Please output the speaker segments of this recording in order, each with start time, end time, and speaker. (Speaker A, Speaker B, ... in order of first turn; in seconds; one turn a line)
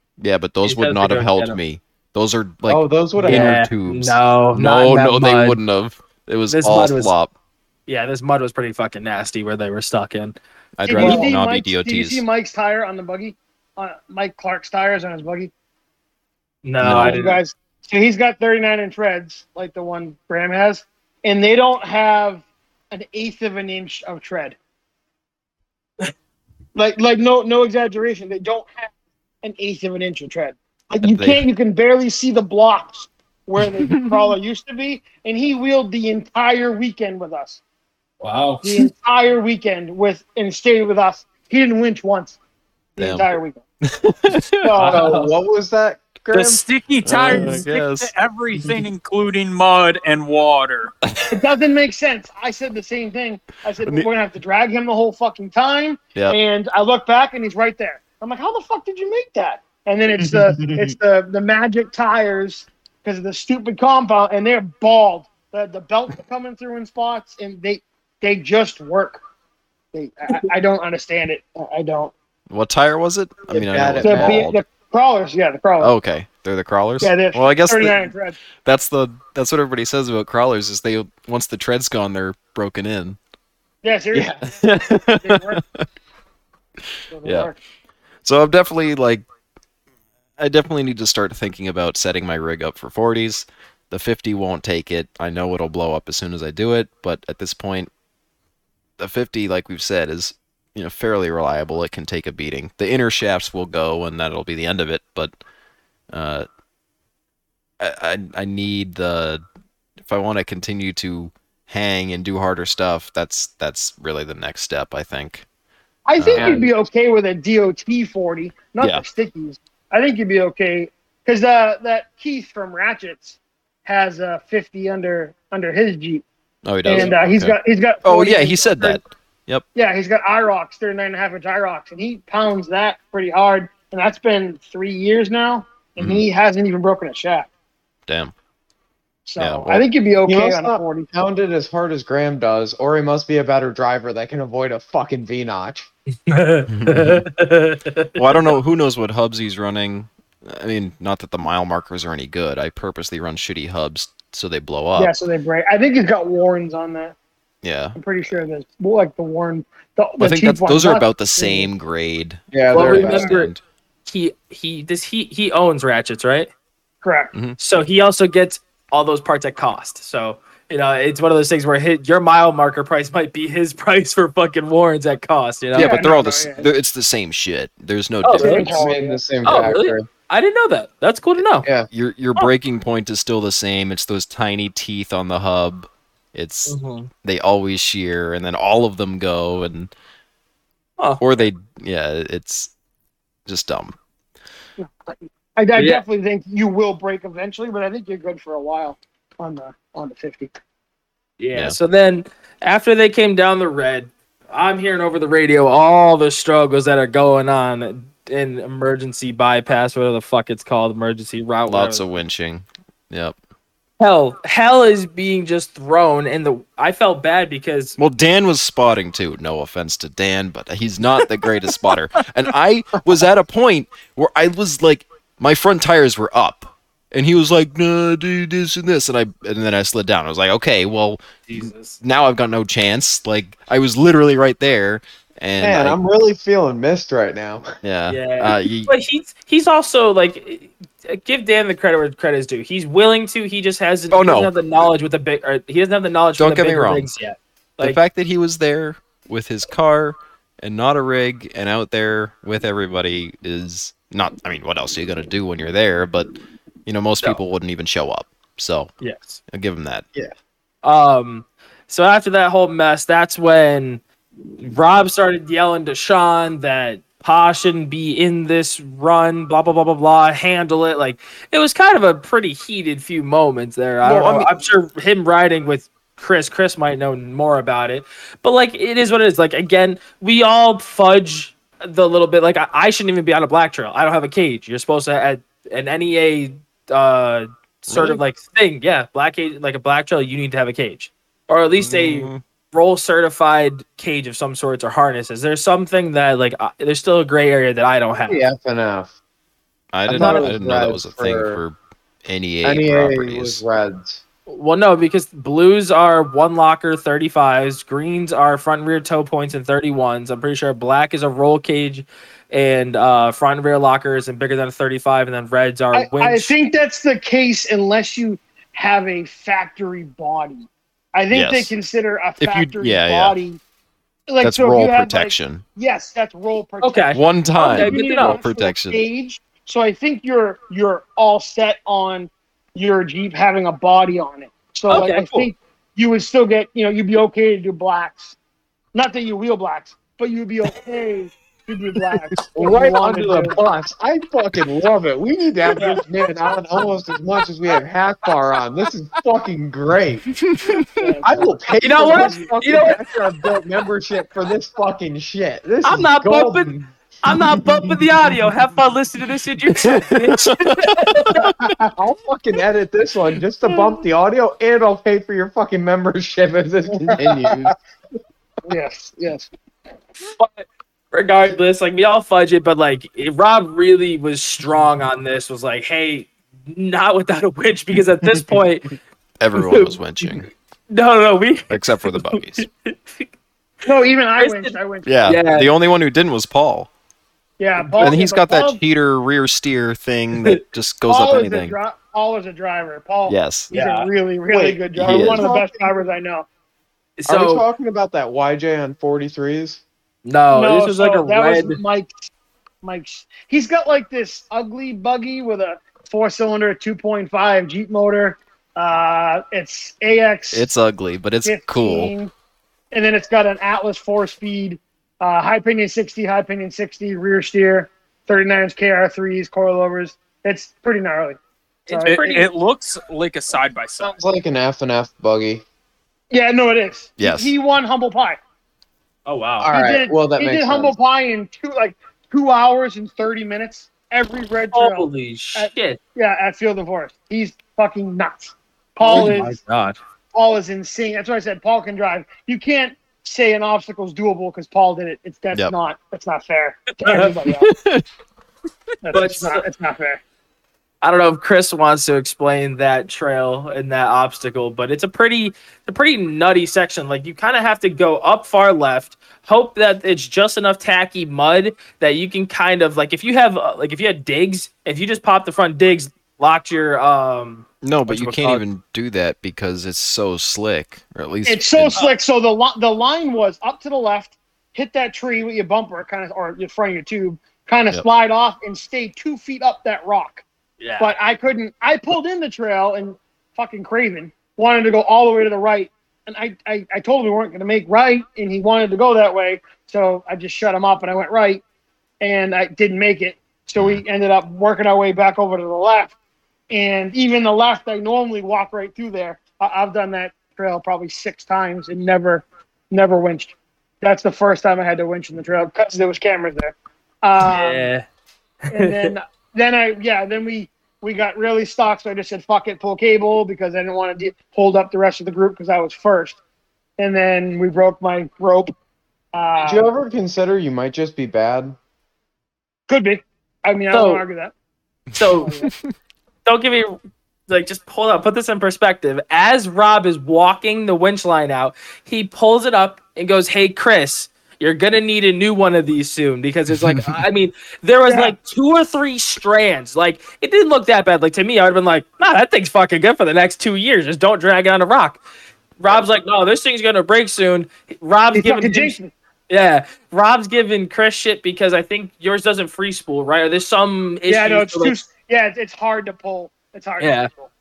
Speaker A: 0.2-7.3
Speaker B: 0.7-1.6
Speaker C: 2.7-3.5
Speaker B: 3.2-5.6
Speaker B: 6.5-7.1
Speaker B: 7.9-10.4
Speaker A: 10.8-12.2
Speaker D: 10.9-15.5
Speaker B: 11.0-11.3
Speaker B: 16.6-17.4
Speaker A: 16.8-17.2
Speaker D: 16.9-24.6
Speaker D: 26.8-28.9
Speaker D: 29.4-37.6
Speaker A: 30.9-31.4
Speaker A: 33.7-34.3
Speaker B: 38.2-38.8
Speaker D: 38.6-42.4
Speaker D: 43.0-43.6
Speaker A: 43.0-43.3
Speaker A: 43.8-44.7
Speaker D: 44.6-45.1
Speaker B: 44.8-45.3
Speaker C: 44.8-46.6
Speaker E: 46.3-50.9
Speaker A: 47.0-48.1
Speaker C: 47.2-47.6
Speaker A: 51.0-51.4
Speaker D: 51.3-69.2
Speaker A: 60.7-60.9
Speaker D: 69.9-72.1
Speaker A: 72.5-74.6
Speaker C: 73.5-74.5
Speaker D: 74.0-75.9
Speaker A: 75.8-78.1
Speaker D: 77.0-78.4
Speaker A: 78.6-83.2
Speaker D: 83.8-84.5
Speaker A: 84.5-85.8
Speaker D: 85.2-85.6
Speaker D: 87.1-87.6
Speaker A: 87.2-87.5
Speaker A: 88.2-89.2
Speaker A: 90.4-97.9
Speaker A: 99.0-105.4
Speaker A: 106.1-106.5
Speaker A: 107.8-109.4
Speaker A: 110.1-115.5
Speaker D: 116.1-126.2
Speaker A: 116.2-116.7
Speaker C: 116.3-116.7
Speaker A: 126.7-129.6
Speaker D: 126.8-129.0
Speaker D: 129.8-137.5
Speaker A: 136.0-136.2
Speaker A: 138.1-138.3
Speaker D: 139.3-141.1
Speaker A: 139.4-139.8
Speaker C: 140.3-145.9
Speaker B: 146.3-148.5
Speaker A: 146.7-147.2
Speaker A: 148.2-155.1
Speaker D: 154.9-157.2
Speaker A: 157.6-158.0
Speaker D: 158.0-161.7
Speaker A: 160.2-163.6
Speaker C: 162.5-163.4
Speaker B: 162.7-163.5
Speaker B: 164.1-166.5
Speaker D: 167.0-167.3
Speaker B: 167.6-176.0
Speaker A: 175.7-178.8
Speaker D: 175.8-176.7
Speaker B: 178.2-178.7
Speaker D: 178.4-179.6
Speaker C: 178.6-180.1
Speaker B: 179.4-181.7
Speaker A: 181.9-189.9
Speaker B: 186.7-187.1
Speaker A: 191.2-192.7
Speaker A: 193.5-193.9
Speaker D: 194.8-200.5
Speaker B: 195.8-196.0
Speaker B: 201.4-212.1
Speaker A: 211.7-213.4
Speaker B: 214.0-218.0
Speaker A: 218.0-236.0
Speaker B: 231.5-232.0
Speaker C: 235.6-237.7
Speaker A: 237.8-238.9
Speaker B: 238.1-248.0
Speaker A: 244.1-244.5
Speaker A: 246.4-247.1
Speaker A: 247.8-256.4
Speaker A: 256.9-258.9
Speaker B: 259.0-259.4
Speaker A: 259.5-260.1
Speaker B: 260.8-264.0
Speaker B: 264.6-298.4
Speaker C: 274.0-274.6
Speaker A: 287.9-288.2
Speaker A: 291.8-292.4
Speaker C: 298.3-299.2
Speaker A: 299.9-303.6
Speaker C: 300.1-301.6
Speaker B: 300.1-300.5
Speaker C: 302.6-304.2
Speaker B: 304.5-316.5
Speaker D: 315.9-323.6
Speaker A: 321.3-321.7
Speaker A: 322.4-323.4
Speaker D: 324.3-338.4
Speaker A: 324.4-325.6
Speaker B: 326.8-328.4
Speaker A: 327.1-329.0
Speaker B: 334.9-335.5
Speaker D: 338.9-343.6
Speaker C: 342.6-350.4
Speaker B: 342.7-343.9
Speaker A: 350.4-350.8
Speaker D: 350.9-351.5
Speaker C: 351.2-358.0
Speaker B: 351.8-353.0
Speaker D: 352.0-352.5
Speaker B: 355.8-356.7
Speaker B: 357.2-361.4
Speaker A: 359.9-361.5
Speaker D: 361.5-361.9
Speaker C: 362.0-367.8
Speaker D: 367.1-367.7
Speaker D: 368.7-369.5
Speaker B: 370.2-378.9
Speaker A: 379.4-380.5
Speaker B: 379.6-383.3
Speaker A: 381.7-382.7
Speaker D: 383.9-385.1
Speaker B: 384.4-385.7
Speaker A: 385.1-386.9
Speaker D: 387.6-388.8
Speaker B: 387.8-388.1
Speaker A: 388.0-391.8
Speaker B: 390.4-390.6
Speaker D: 391.1-396.5
Speaker A: 393.3-393.7
Speaker B: 393.7-394.1
Speaker C: 394.5-395.9
Speaker A: 395.0-395.5
Speaker B: 397.2-397.6
Speaker C: 397.3-399.8
Speaker B: 400.2-401.8
Speaker D: 400.5-402.3
Speaker D: 402.8-410.7
Speaker A: 410.5-412.1
Speaker D: 411.4-412.3
Speaker D: 412.9-422.5
Speaker B: 421.9-422.5
Speaker E: 422.1-424.2
Speaker C: 424.0-425.6
Speaker D: 426.3-428.4
Speaker A: 427.2-427.5
Speaker B: 429.3-429.7
Speaker C: 429.6-431.0
Speaker D: 429.7-439.6
Speaker B: 434.7-436.0
Speaker B: 439.0-440.0
Speaker C: 439.1-439.5
Speaker D: 440.3-447.7
Speaker B: 447.0-447.3
Speaker A: 447.5-448.1
Speaker D: 449.0-450.2
Speaker B: 449.1-449.7
Speaker B: 451.0-468.6
Speaker A: 467.8-472.0
Speaker D: 471.4-480.4
Speaker B: 480.8-481.1
Speaker D: 481.0-491.6
Speaker D: 492.2-496.1
Speaker A: 493.8-494.0
Speaker D: 496.7-507.9
Speaker B: 507.4-508.1
Speaker B: 508.7-509.1
Speaker D: 508.7-516.4
Speaker D: 517.0-518.7
Speaker D: 519.3-519.8
Speaker C: 519.6-521.8
Speaker D: 522.9-524.5
Speaker B: 523.9-524.2
Speaker A: 525.1-525.9
Speaker B: 525.1-525.5
Speaker D: 525.3-525.7
Speaker B: 526.5-545.2
Speaker A: 536.8-537.2
Speaker D: 538.1-538.4
Speaker B: 545.8-549.0
Speaker D: 548.3-549.1
Speaker B: 549.5-554.9
Speaker D: 554.3-557.5
Speaker B: 557.0-557.3